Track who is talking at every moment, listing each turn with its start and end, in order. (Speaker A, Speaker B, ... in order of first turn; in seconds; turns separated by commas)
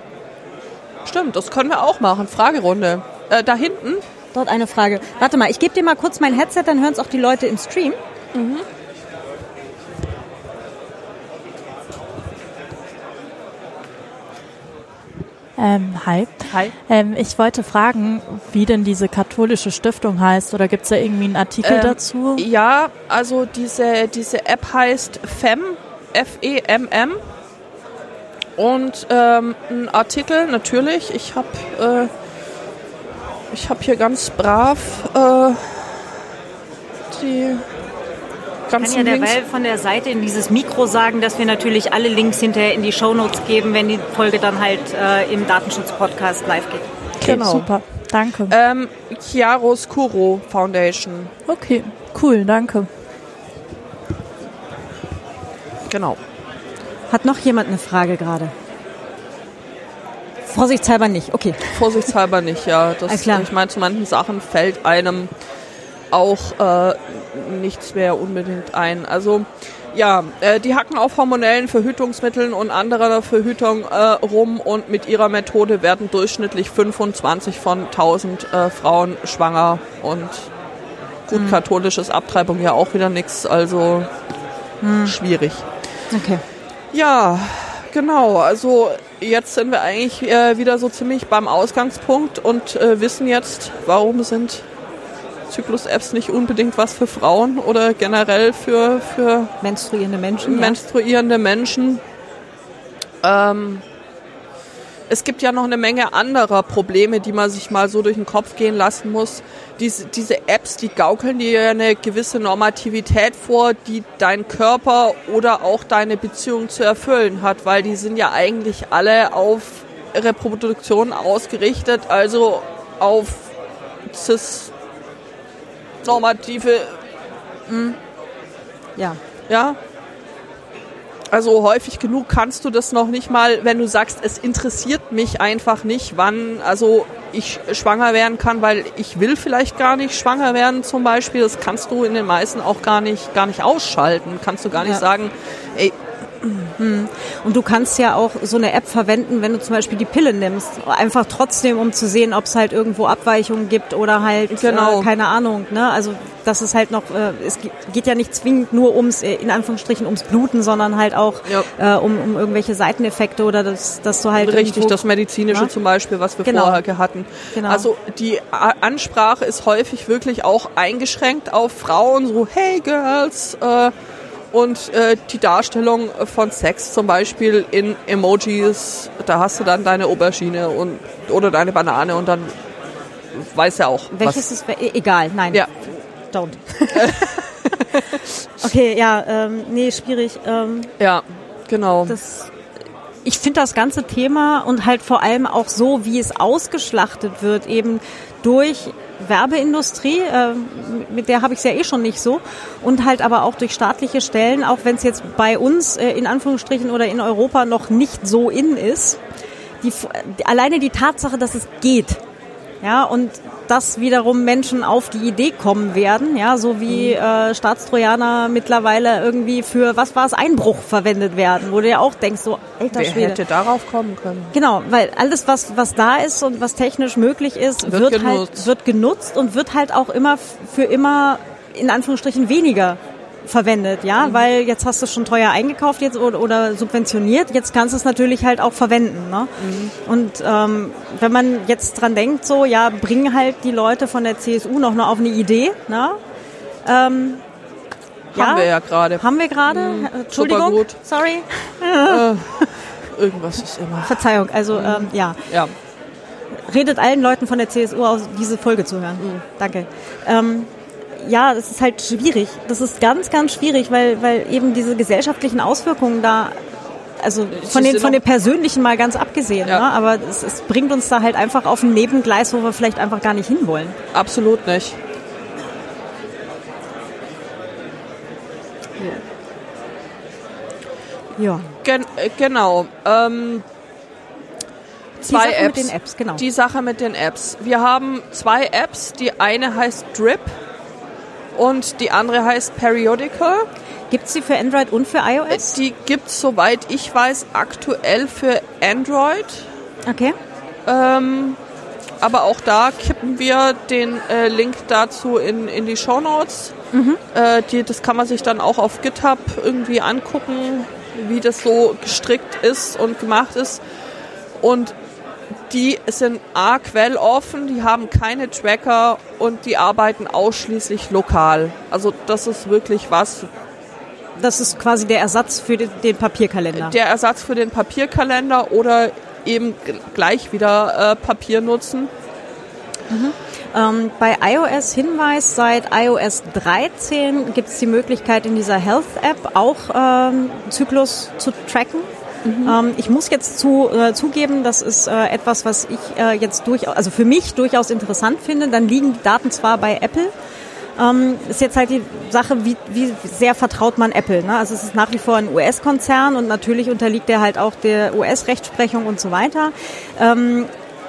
Speaker A: 1.0-4.0, Speaker B: 4.3-8.0, Speaker A: 8.3-8.6, Speaker C: 15.6-22.4, Speaker A: 21.6-27.2, Speaker A: 28.6-32.1, Speaker A: 33.5-36.0, Speaker A: 37.1-37.6, Speaker A: 38.7-39.3, Speaker B: 38.8-46.9, Speaker A: 47.2-47.7, Speaker C: 47.2-48.5, Speaker A: 48.5-51.3, Speaker C: 51.5-52.9, Speaker A: 55.9-56.2, Speaker B: 57.1-58.5, Speaker B: 60.5-62.0, Speaker A: 61.7-65.3, Speaker B: 63.1-63.5, Speaker A: 66.1-80.5, Speaker A: 81.3-84.1, Speaker B: 81.3-81.6, Speaker B: 84.8-85.1, Speaker A: 85.0-85.7, Speaker B: 86.1-86.4, Speaker A: 86.9-94.7, Speaker A: 95.5-99.5, Speaker B: 99.6-100.8, Speaker A: 100.4-102.0, Speaker A: 103.2-103.8, Speaker A: 105.1-123.5, Speaker A: 124.0-124.7, Speaker A: 126.0-127.0, Speaker B: 127.7-128.0, Speaker A: 129.5-129.8, Speaker A: 131.3-146.5, Speaker B: 146.8-165.7, Speaker A: 154.5-155.1, Speaker A: 164.3-173.9, Speaker B: 166.4-166.8, Speaker B: 167.5-167.9, Speaker A: 174.5-182.5, Speaker A: 183.3-184.4, Speaker B: 184.2-190.9, Speaker A: 186.9-188.2, Speaker A: 191.0-192.2, Speaker B: 192.1-192.5, Speaker B: 193.2-209.2, Speaker B: 209.8-212.2, Speaker B: 212.8-223.4, Speaker A: 216.9-217.1, Speaker A: 222.9-224.5, Speaker B: 224.5-239.5, Speaker A: 227.8-228.7, Speaker A: 239.6-239.9, Speaker B: 240.0-246.2, Speaker B: 246.8-247.4, Speaker A: 248.3-250.9, Speaker B: 248.3-252.7, Speaker A: 252.0-255.7, Speaker B: 254.0-255.5, Speaker B: 256.7-266.6, Speaker B: 267.2-274.0, Speaker A: 267.5-268.2, Speaker A: 274.1-275.0, Speaker B: 281.4-281.7, Speaker A: 281.8-283.6, Speaker A: 285.2-290.5, Speaker B: 285.3-286.4, Speaker A: 291.5-293.7, Speaker B: 294.1-295.8, Speaker A: 295.5-299.7, Speaker B: 300.1-300.3, Speaker A: 300.9-301.6, Speaker A: 302.2-306.7, Speaker B: 306.9-307.2, Speaker A: 307.3-313.8, Speaker A: 314.6-315.0, Speaker A: 315.7-323.5, Speaker B: 324.4-326.9, Speaker A: 326.7-332.1, Speaker B: 333.1-342.1, Speaker A: 342.4-342.8, Speaker B: 342.6-350.3, Speaker B: 351.0-360.7